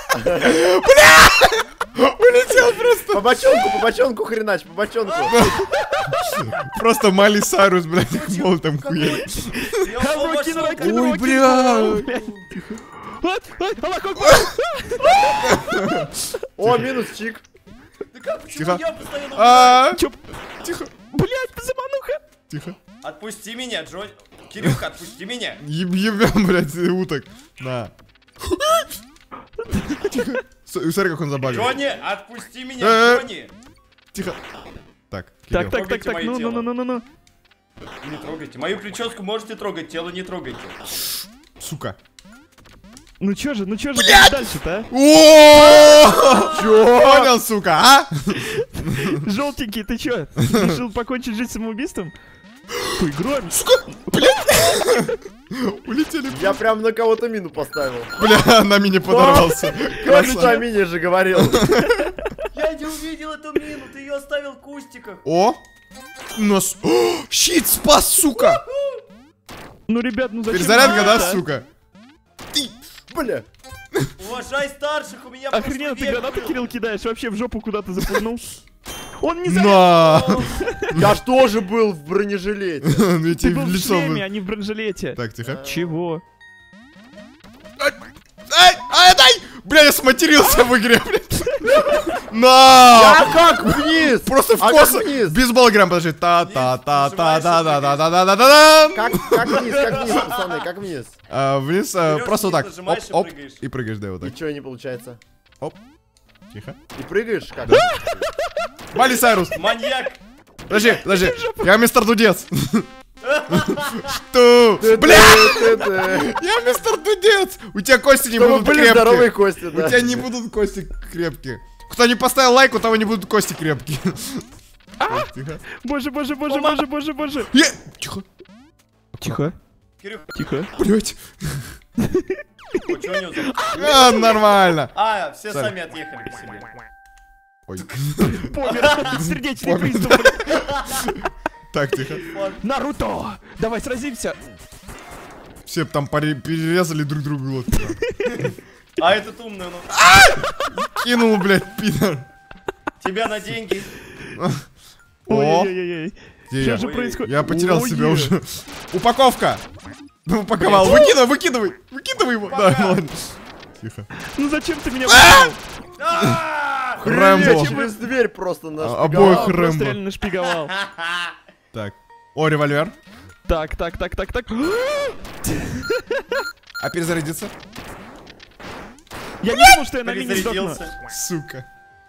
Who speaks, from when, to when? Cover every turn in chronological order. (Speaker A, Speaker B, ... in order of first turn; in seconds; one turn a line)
Speaker A: 0.3-3.3
Speaker B: 3.1-5.3
Speaker C: 5.0-5.3
Speaker A: 5.3-5.6
Speaker D: 5.6-6.2
Speaker A: 6.5-9.9
Speaker C: 8.1-11.0
Speaker D: 10.0-12.3
Speaker A: 10.8-12.8
Speaker D: 13.0-15.8
Speaker A: 14.2-14.5
Speaker A: 15.4-16.9
Speaker B: 16.6-17.4
Speaker C: 18.1-19.9
Speaker A: 18.6-18.8
Speaker A: 19.3-20.0
Speaker D: 19.9-20.2
Speaker A: 20.6-20.9
Speaker D: 21.1-22.2
Speaker A: 22.5-22.8
Speaker C: 23.0-25.6
Speaker A: 25.6-28.9
Speaker A: 30.1-31.8
Speaker C: 31.4-33.5
Speaker A: 32.8-33.3
Speaker A: 35.1-35.8
Speaker D: 35.5-37.0
Speaker C: 35.7-36.7
Speaker C: 38.0-40.8
Speaker A: 41.6-42.0
Speaker D: 43.2-44.9
Speaker A: 44.0-49.2
Speaker C: 45.5-46.8
Speaker B: 46.4-47.3
Speaker D: 49.0-52.1
Speaker A: 50.4-50.8
Speaker D: 52.9-55.0
Speaker A: 53.5-56.6
Speaker B: 56.3-58.1
Speaker A: 58.2-60.7
Speaker B: 59.1-61.8
Speaker D: 60.0-60.6
Speaker A: 61.5-61.9
Speaker C: 62.5-65.2
Speaker A: 65.2-65.6
Speaker A: 66.3-68.6
Speaker C: 68.3-69.0
Speaker D: 69.9-71.4
Speaker A: 70.5-71.7
Speaker C: 70.8-71.2
Speaker B: 73.1-73.5
Speaker C: 74.2-76.6
Speaker D: 75.5-78.5
Speaker D: 79.2-80.9
Speaker A: 79.5-81.0
Speaker C: 80.1-80.4
Speaker B: 81.0-83.1
Speaker A: 82.9-84.3
Speaker D: 83.3-86.2
Speaker A: 85.2-85.6
Speaker B: 85.4-85.9
Speaker A: 88.5-99.5
Speaker B: 92.9-95.4
Speaker C: 96.4-98.1
Speaker B: 98.9-101.1
Speaker C: 99.5-100.4
Speaker A: 101.3-104.3
Speaker C: 102.0-103.6
Speaker B: 104.2-105.2
Speaker A: 106.5-106.8
Speaker B: 107.0-108.3
Speaker D: 107.7-108.2
Speaker A: 108.9-109.6
Speaker C: 109.5-110.2
Speaker A: 110.7-112.9
Speaker D: 110.7-111.7
Speaker C: 113.2-114.2
Speaker A: 113.6-124.5
Speaker B: 114.8-116.3
Speaker B: 118.3-120.3
Speaker D: 125.0-127.5
Speaker A: 125.1-125.6
Speaker C: 126.5-126.8
Speaker A: 127.5-128.2
Speaker A: 129.2-129.4
Speaker D: 129.2-129.5
Speaker C: 130.0-130.4
Speaker D: 130.3-130.7
Speaker A: 130.8-131.8
Speaker C: 132.8-134.2
Speaker D: 133.6-134.0
Speaker A: 133.7-134.9
Speaker C: 134.9-136.7
Speaker A: 135.5-135.7
Speaker A: 137.7-138.5
Speaker D: 138.2-140.4
Speaker C: 138.6-139.1
Speaker A: 139.1-142.3
Speaker C: 140.5-141.1
Speaker C: 142.3-142.6
Speaker D: 142.6-144.4
Speaker A: 145.7-148.0
Speaker C: 148.3-150.0
Speaker A: 149.9-152.3
Speaker C: 153.0-153.9
Speaker A: 154.4-154.6
Speaker A: 155.3-155.7
Speaker D: 155.3-158.3
Speaker A: 156.5-159.6
Speaker C: 156.8-157.2
Speaker A: 160.2-164.1
Speaker D: 160.6-161.2
Speaker C: 162.4-163.0
Speaker D: 164.3-165.6
Speaker A: 165.1-165.6
Speaker C: 166.0-167.0
Speaker A: 167.0-167.8
Speaker B: 167.0-169.5
Speaker D: 167.2-168.0
Speaker A: 168.8-170.0
Speaker D: 169.2-170.7
Speaker C: 170.6-171.3
Speaker A: 171.7-172.9
Speaker D: 173.5-176.0
Speaker A: 176.8-177.5
Speaker D: 179.4-180.8
Speaker C: 180.0-181.0
Speaker A: 181.1-181.7